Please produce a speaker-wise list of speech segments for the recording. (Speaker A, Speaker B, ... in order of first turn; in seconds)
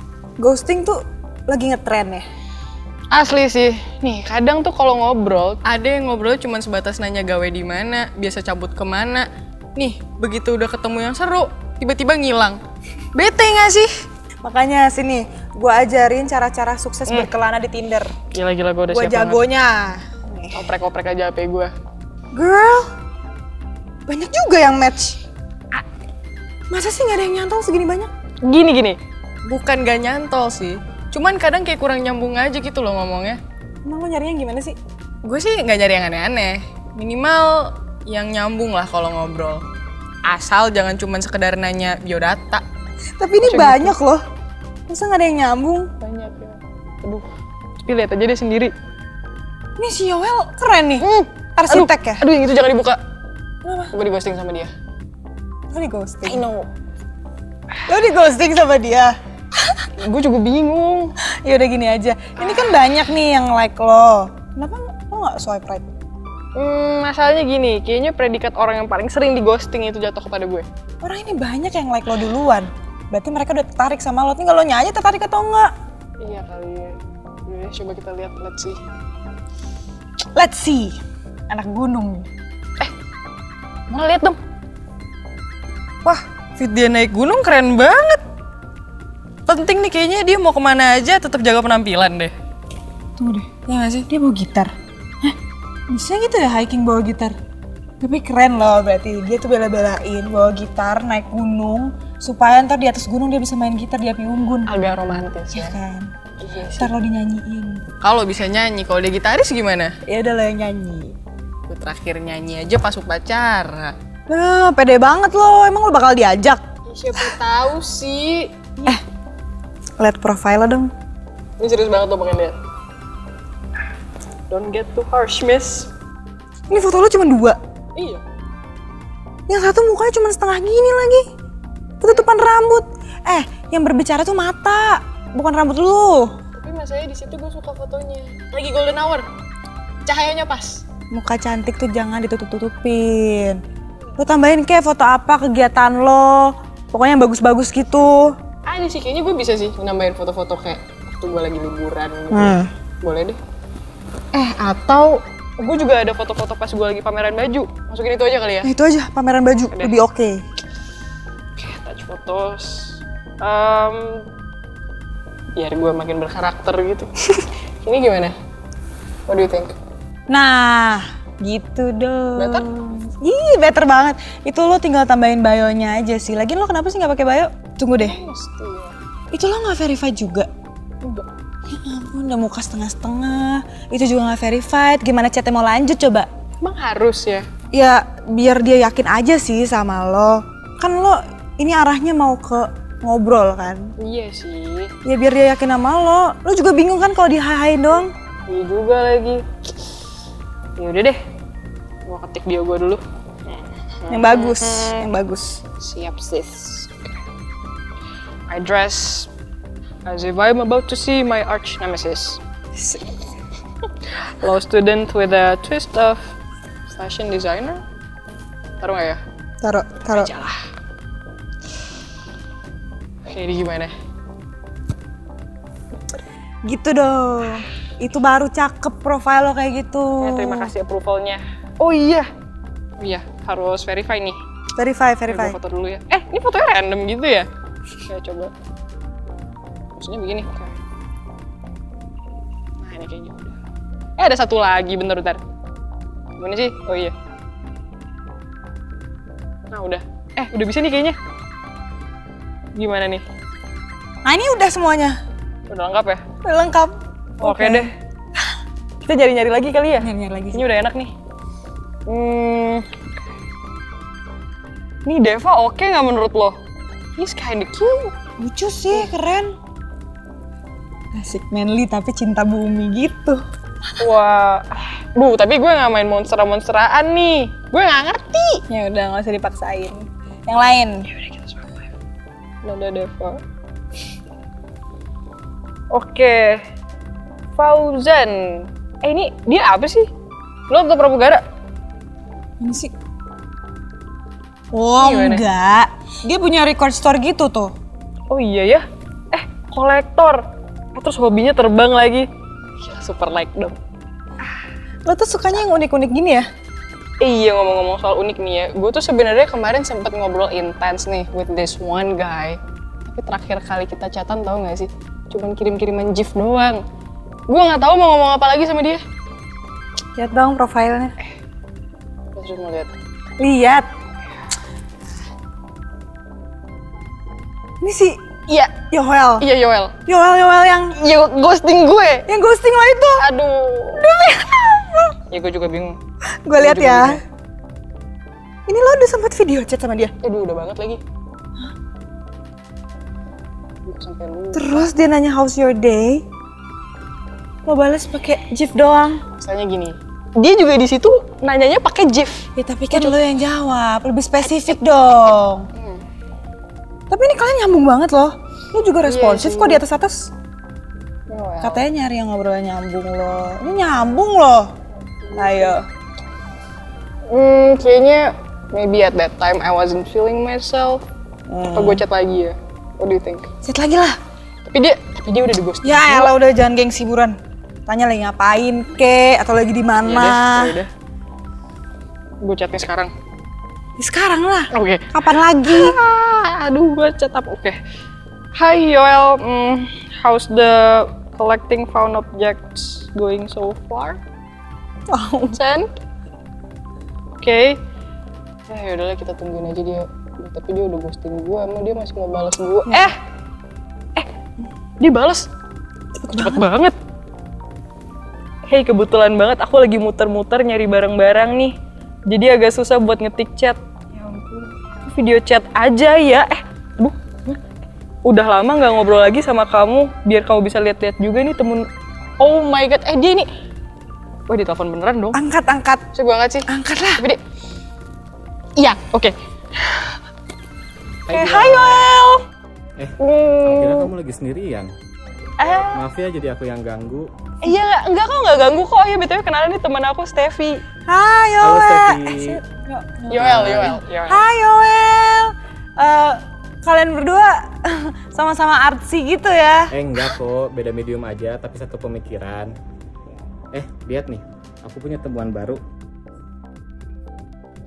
Speaker A: 0.4-2.2, 14.4-18.1, 18.9-20.6, 22.3-22.9, 24.1-25.2, 26.7-28.1, 33.8-34.8, 43.2-44.2, 44.9-45.9, 49.8-52.2, 53.6-53.9, 55.7-56.4, 57.9-59.1, 61.4-65.9, 71.0-75.7, 80.3-81.0, 81.5-82.3, 93.2-95.4, 95.9-97.4, 98.0-104.7, 105.5-106.1, 106.8-107.8, 110.1-111.1, 114.3-116.6, 120.0-120.9, 126.7-127.6, 129.5-131.2, 132.0-136.3, 141.1-143.6, 144.2-148.3, 152.3-152.7, 158.6-160.4, 170.3-178.2, 179.3-180.5, 181.7-186.3, 187.7-193.9, 195.0-198.1, 204.1-205.6, 219.6-220.3, 226.6-230.7, 234.8-235.6, 254.2-255.2, 256.4-257.9, 260.0-260.6, 268.4-269.6, 271.1-273.4, 278.7-281.2, 292.6-292.9, 294.7-297.7, 305.1-306.5, 320.2-321.2, 323.4-323.9, 327.8-328.2, 328.8-329.5, 330.1-331.0, 332.3-333.2, 333.9-335.1, 336.4-337.2, 338.7-340.1, 344.5-346.2, 347.6-349.2, 352.6-355.7, 357.1-360.3, 361.6-364.7, 365.4-365.9, 371.5-372.0, 373.6-374.2, 375.8-380.8, 384.0-386.0, 395.1-395.6, 402.9-403.1, 406.2-406.7, 425.3-426.0, 426.7-427.2, 441.1-450.3
Speaker B: 3.1-12.6, 13.1-13.9, 18.3-19.4, 20.5-21.7, 28.4-33.4, 35.2-39.6, 40.2-42.6, 43.4-44.0, 46.0-47.2, 47.9-48.7, 51.0-53.0, 53.9-54.7, 56.2-56.7, 60.0-61.1, 66.5-70.7, 76.2-78.8, 83.9-84.4, 86.0-88.2, 89.5-92.3, 104.7-105.8, 106.4-106.9, 108.0-109.9, 111.7-113.9, 116.9-119.0, 121.6-122.6, 124.5-125.9, 127.9-128.2, 136.5-139.2, 140.0-140.8, 148.7-153.4, 154.3-158.7, 159.7-160.0, 161.6-164.3, 165.6-168.3, 169.3-169.8, 172.4-172.7, 178.0-178.9, 181.0-181.3, 186.6-187.5, 194.0-194.9, 198.5-199.4, 200.8-201.2, 202.1-205.1, 205.8-207.2, 208.5-209.3, 210.0-212.4, 214.0-216.3, 216.9-217.8, 218.8-219.2, 220.1-220.6, 223.2-223.9, 230.2-232.2, 233.0-234.4, 235.3-237.5, 238.0-238.5, 239.9-240.7, 242.8-243.6, 244.2-245.4, 246.4-247.1, 249.7-251.2, 252.7-253.2, 255.7-256.2, 257.4-257.9, 259.0-261.1, 262.1-262.9, 265.1-266.6, 267.2-268.1, 274.0-278.6, 282.6-283.4, 285.9-286.6, 287.6-290.1, 290.7-291.4, 295.0-295.4, 298.3-303.8, 307.2-316.8, 317.5-319.0, 322.4-322.9, 328.5-328.7, 329.4-329.9, 330.9-332.3, 333.2-334.0, 335.3-336.0, 336.6-337.2, 340.2-341.0, 343.8-344.9, 349.4-353.1, 355.8-356.1, 359.0-359.8, 361.3-361.9, 365.2-365.8, 367.3-371.0, 371.7-373.5, 374.6-376.3, 380.0-380.9, 382.4-383.1, 384.7-385.1, 385.6-387.8, 388.5-394.2, 395.5-395.9, 397.4-397.8, 398.7-403.1, 405.0-405.5, 406.3-407.0, 408.7-411.8, 412.3-417.6, 418.2-421.9, 422.4-423.5, 424.5-425.4, 426.1-427.4, 428.8-430.2, 431.3-432.4, 433.2-434.1, 435.6-436.0, 437.6-440.8, 443.3-444.5
Speaker C: 431.3-432.1, 433.0-434.9, 435.8-437.3, 441.6-442.6, 443.3-443.9, 449.9-452.7, 453.7-455.8